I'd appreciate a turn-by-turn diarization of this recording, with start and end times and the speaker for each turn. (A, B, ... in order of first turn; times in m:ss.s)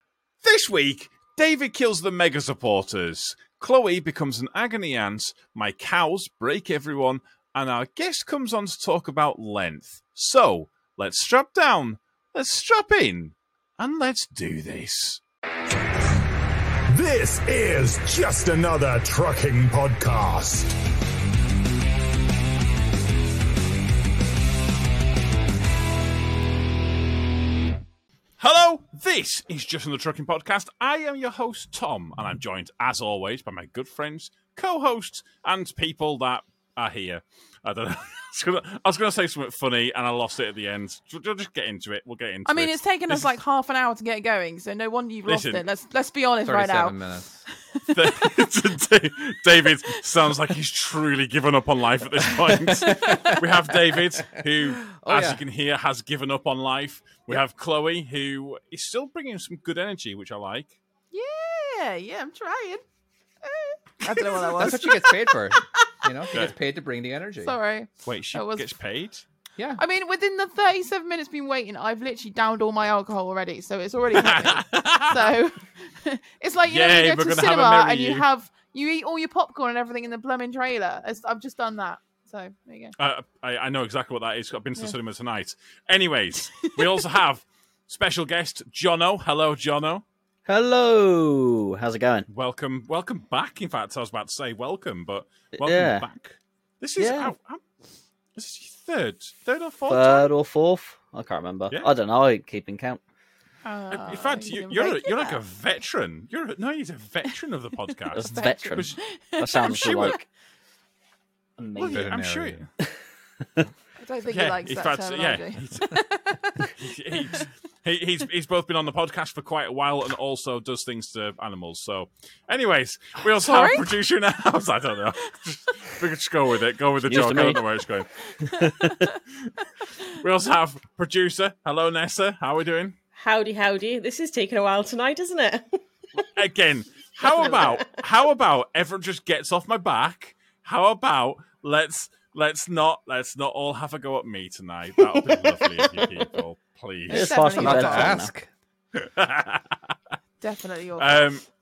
0:00.4-0:15.2 A
0:16.9-0:20.8 B
0:28.4-0:43.3 A
0:42.5-0:47.0 C
0:45.3-0:45.6 A
0:46.4-0:47.4 D
0:47.8-0:48.4 C
0:47.9-1:00.8 A
0:52.5-0:53.5 D
0:54.2-0:55.4 D
1:01.1-1:02.8 C
1:03.4-1:06.1 C
1:04.6-1:07.6 D
1:07.4-1:08.7 C
1:08.1-1:09.2 A
1:09.8-1:23.0 C
1:14.1-1:15.3 A
1:16.6-1:18.3 A
1:23.0-1:30.0 A
1:30.5-1:32.3 E
1:32.3-1:37.6 A
1:35.6-1:36.1 E
1:37.0-1:37.3 E
1:38.4-1:40.3 A
1:39.9-1:43.0 E
1:43.6-1:45.4 C
1:43.9-1:49.0 A
1:48.1-1:50.2 E
1:48.2-1:50.2 C
1:49.6-1:50.2 A
1:51.6-1:52.1 E
1:51.8-1:52.6 A
1:51.8-1:52.7 D
1:54.0-1:57.5 C
1:54.3-1:56.0 A
1:56.8-2:08.1 A
2:03.4-2:03.9 C
2:07.1-2:07.6 E
2:08.5-2:09.0 E
2:10.1-2:13.0 A
2:13.2-2:15.7 F
2:16.4-2:27.4 A
2:17.3-2:17.8 F
2:25.2-2:26.0 F
2:27.1-2:28.3 E
2:27.1-2:28.2 C
2:27.4-2:28.5 D
2:29.0-2:29.8 A
2:30.4-2:31.2 C
2:31.0-2:31.4 A